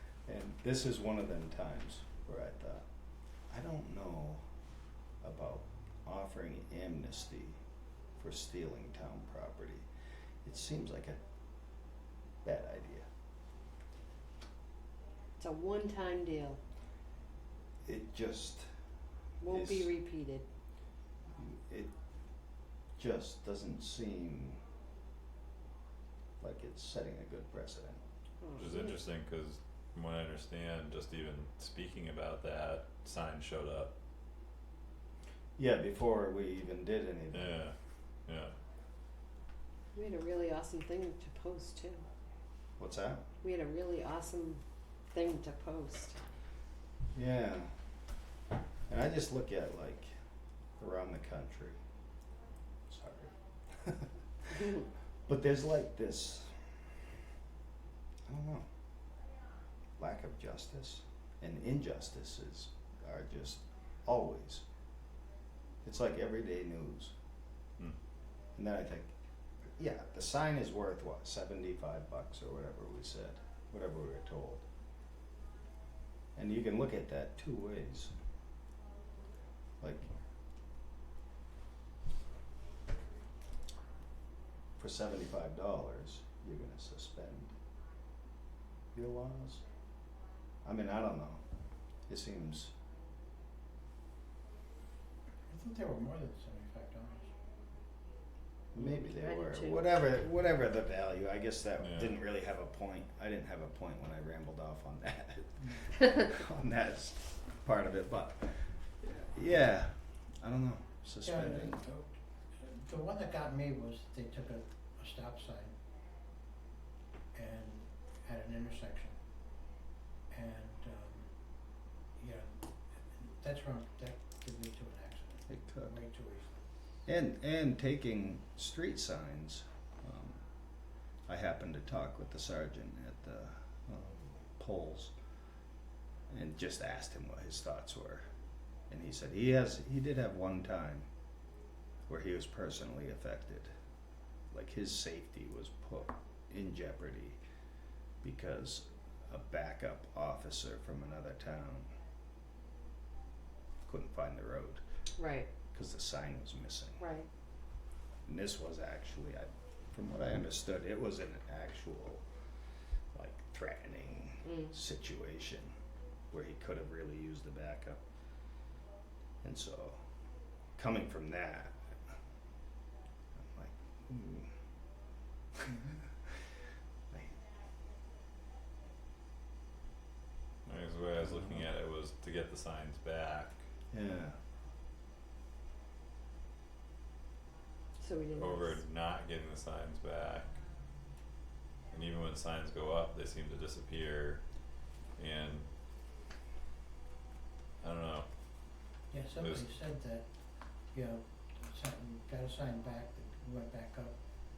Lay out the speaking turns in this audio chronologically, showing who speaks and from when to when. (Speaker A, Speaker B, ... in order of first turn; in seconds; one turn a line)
Speaker A: 0.2-2.8
Speaker A: 3.5-4.4
Speaker A: 5.2-7.6
Speaker A: 8.2-9.8
Speaker A: 10.4-11.2
Speaker A: 12.4-13.1
Speaker B: 15.4-16.6
Speaker A: 17.8-18.7
Speaker B: 19.4-20.4
Speaker A: 19.5-19.9
Speaker A: 21.4-21.9
Speaker A: 23.0-24.6
Speaker A: 26.4-28.0
Speaker B: 28.4-29.0
Speaker C: 28.5-33.9
Speaker A: 35.6-37.6
Speaker C: 37.3-37.7
Speaker C: 38.3-38.5
Speaker B: 39.9-42.0
Speaker A: 42.8-43.2
Speaker B: 43.4-46.2
Speaker A: 47.1-47.7
Speaker A: 48.9-50.1
Speaker A: 50.8-51.8
Speaker A: 52.9-56.7
Speaker A: 58.3-58.6
Speaker A: 60.0-64.6
Speaker A: 65.8-67.1
Speaker A: 68.5-69.1
Speaker A: 69.8-74.6
Speaker A: 76.3-78.1
Speaker A: 79.8-80.1
Speaker A: 84.8-87.5
Speaker A: 88.9-89.6
Speaker A: 90.6-91.4
Speaker A: 92.1-92.7
Speaker D: 95.5-97.3
Speaker A: 98.7-111.8
Speaker B: 98.8-99.9
Speaker C: 101.8-102.2
Speaker D: 111.2-115.8
Speaker D: 117.3-119.2
Speaker D: 120.3-121.3
Speaker D: 122.2-126.5
Speaker A: 125.5-126.0
Speaker A: 127.0-130.4
Speaker A: 131.3-135.1
Speaker A: 136.3-138.2
Speaker A: 138.9-141.1
Speaker A: 142.1-143.7
Speaker A: 144.5-147.4
Speaker A: 148.2-151.9
Speaker A: 153.9-154.8
Speaker B: 155.2-155.5
Speaker A: 155.7-157.0
Speaker B: 157.0-157.3
Speaker A: 158.2-162.2
Speaker A: 163.1-165.7
Speaker B: 164.4-164.7
Speaker A: 166.3-168.0
Speaker A: 169.4-170.0
Speaker A: 170.8-171.8
Speaker A: 173.4-174.5
Speaker A: 175.6-176.0
Speaker A: 177.1-177.4
Speaker C: 180.7-183.6
Speaker A: 183.9-184.4
Speaker B: 188.0-188.8
Speaker C: 188.3-190.5
Speaker C: 191.9-194.4
Speaker C: 195.2-195.7
Speaker C: 197.8-198.2
Speaker D: 199.1-200.3
Speaker C: 199.4-199.7
Speaker D: 200.9-204.2